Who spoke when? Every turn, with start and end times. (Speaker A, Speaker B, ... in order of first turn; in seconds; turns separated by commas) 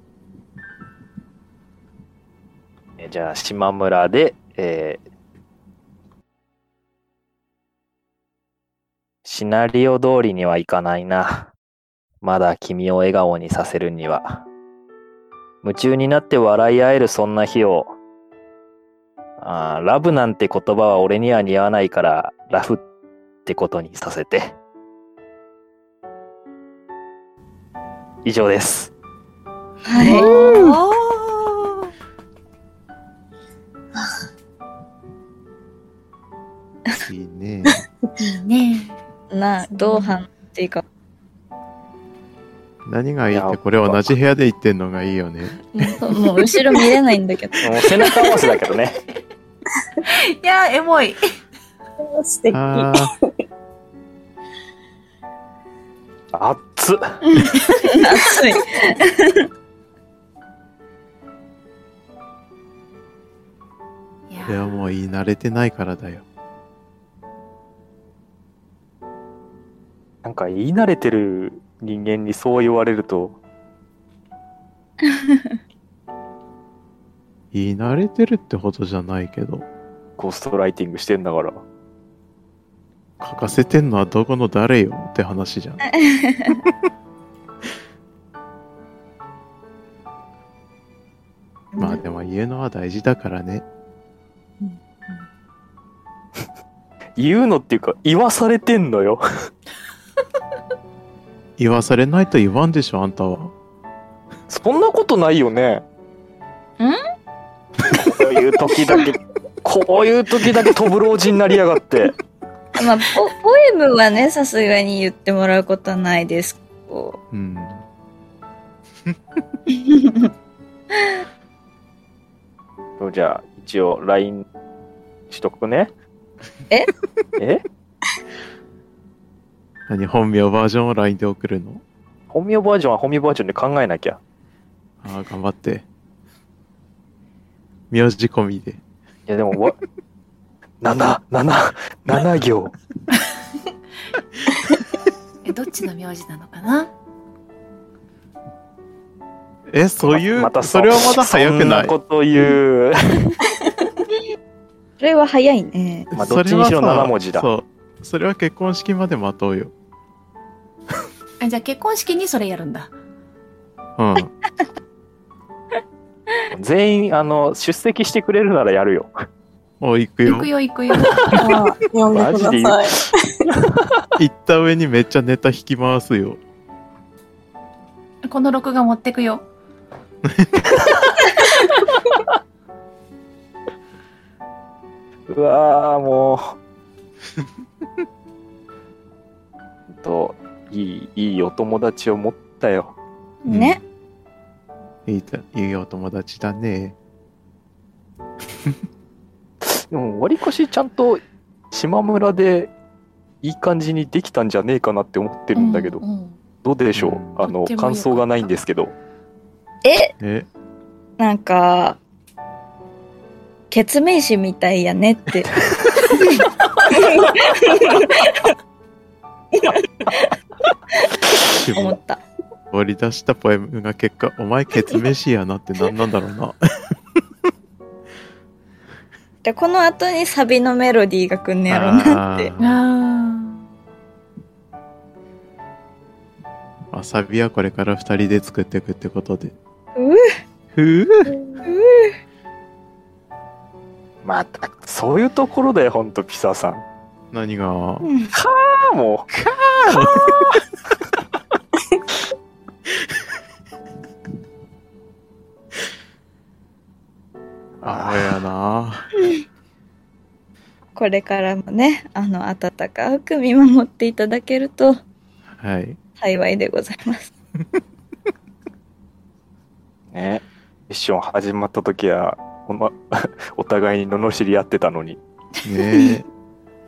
Speaker A: 3.0-5.0, Speaker A: 9.2-11.5, Speaker A: 12.2-14.4, Speaker A: 15.6-17.9, Speaker A: 19.4-22.8, Speaker A: 23.4-24.6, Speaker A: 28.2-28.9, Speaker B: 29.8-30.7, Speaker C: 30.0-31.7, Speaker D: 36.9-37.8, Speaker C: 38.2-39.0, Speaker B: 39.3-40.8, Speaker D: 42.8-45.6, Speaker A: 43.3-44.1, Speaker B: 45.7-47.7, Speaker A: 47.6-49.0, Speaker C: 50.0-51.2, Speaker E: 52.0-53.3, Speaker D: 52.5-53.1, Speaker A: 56.3-57.2, Speaker B: 57.3-59.5, Speaker C: 64.3-64.7, Speaker D: 64.5-66.2, Speaker A: 70.2-73.4, Speaker B: 75.1-75.4, Speaker D: 77.5-79.6, Speaker A: 80.2-81.6, Speaker D: 83.2-85.8, Speaker B: 85.9-86.6, Speaker B: 91.7-92.0, Speaker D: 91.8-93.6, Speaker E: 94.6-95.2, Speaker A: 97.2-99.2, Speaker D: 101.6-103.5, Speaker A: 104.5-105.8, Speaker A: 107.9-112.1, Speaker B: 112.8-117.2, Speaker D: 117.3-117.8, Speaker B: 119.7-120.3, Speaker A: 123.0-124.5, Speaker A: 125.3-125.9, Speaker A: 127.4-127.6, Speaker D: 129.9-131.8, Speaker A: 132.3-134.2, Speaker D: 135.0-135.8, Speaker D: 137.9-138.8, Speaker A: 139.3-139.8, Speaker A: 140.8-142.7, Speaker C: 145.4-146.9, Speaker D: 149.7-151.9, Speaker A: 150.0-153.3, Speaker B: 155.0-156.1, Speaker D: 156.1-159.7, Speaker A: 156.2-157.5, Speaker C: 161.4-162.9, Speaker D: 164.0-164.3, Speaker A: 166.5-169.2, Speaker D: 169.8-170.5, Speaker C: 170.2-171.6, Speaker E: 171.3-173.1, Speaker A: 172.1-173.9, Speaker D: 174.2-176.4, Speaker C: 178.2-179.4, Speaker D: 180.2-180.8, Speaker A: 185.3-186.6, Speaker A: 189.9-193.0, Speaker B: 193.4-193.8, Speaker D: 193.5-193.8, Speaker D: 195.1-196.9, Speaker A: 199.6-202.7, Speaker A: 203.4-206.0, Speaker C: 205.6-206.4, Speaker A: 206.6-208.9, Speaker D: 206.9-207.5, Speaker C: 207.4-208.5, Speaker B: 209.8-210.1, Speaker D: 210.2-210.5, Speaker B: 211.2-212.0, Speaker B: 213.7-215.5, Speaker B: 216.1-218.5, Speaker B: 219.6-220.3, Speaker B: 221.0-222.2, Speaker D: 221.5-222.0, Speaker D: 222.7-227.0, Speaker B: 229.4-232.5, Speaker D: 231.7-232.8, Speaker C: 232.6-233.7, Speaker D: 236.9-239.6, Speaker B: 239.9-240.3, Speaker D: 240.7-241.3, Speaker B: 241.6-242.1, Speaker A: 244.2-246.8, Speaker D: 247.3-248.1, Speaker B: 248.0-248.3, Speaker A: 248.3-249.3, Speaker D: 249.3-250.4, Speaker A: 249.9-250.6, Speaker D: 257.8-259.1, Speaker A: 257.8-258.3, Speaker B: 260.9-265.0, Speaker D: 265.5-266.0, Speaker B: 266.2-267.3, Speaker A: 270.1-275.2, Speaker D: 275.6-276.2, Speaker C: 275.7-276.2